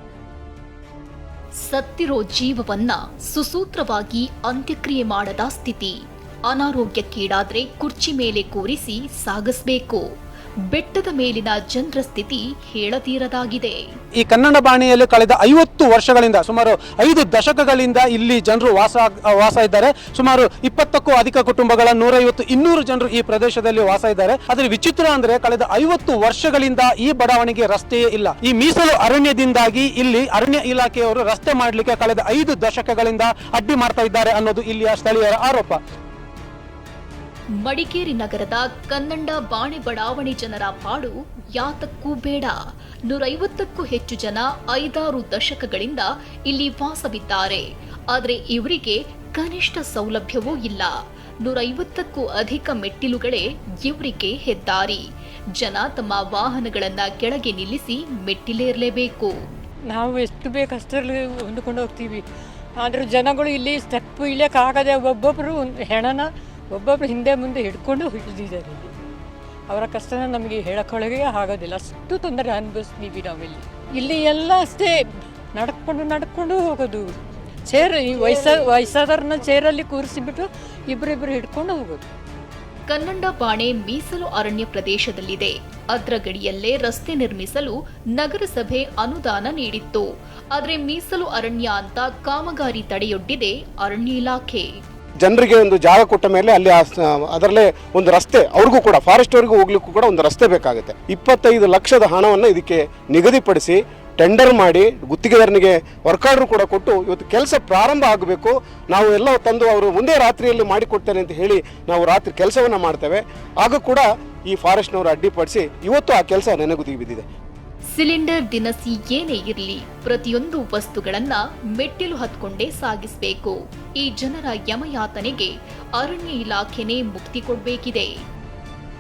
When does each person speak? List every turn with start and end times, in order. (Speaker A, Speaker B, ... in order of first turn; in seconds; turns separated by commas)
Speaker A: 1.6-10.0, Speaker A: 10.7-13.8, Speaker B: 14.2-35.8, Speaker A: 37.6-42.6, Speaker A: 43.1-55.0, Speaker A: 55.6-59.3, Speaker C: 59.9-62.2, Speaker C: 62.8-68.9, Speaker C: 69.7-75.0, Speaker C: 75.5-82.1, Speaker A: 82.9-94.7, Speaker D: 95.2-117.3, Speaker A: 117.9-128.1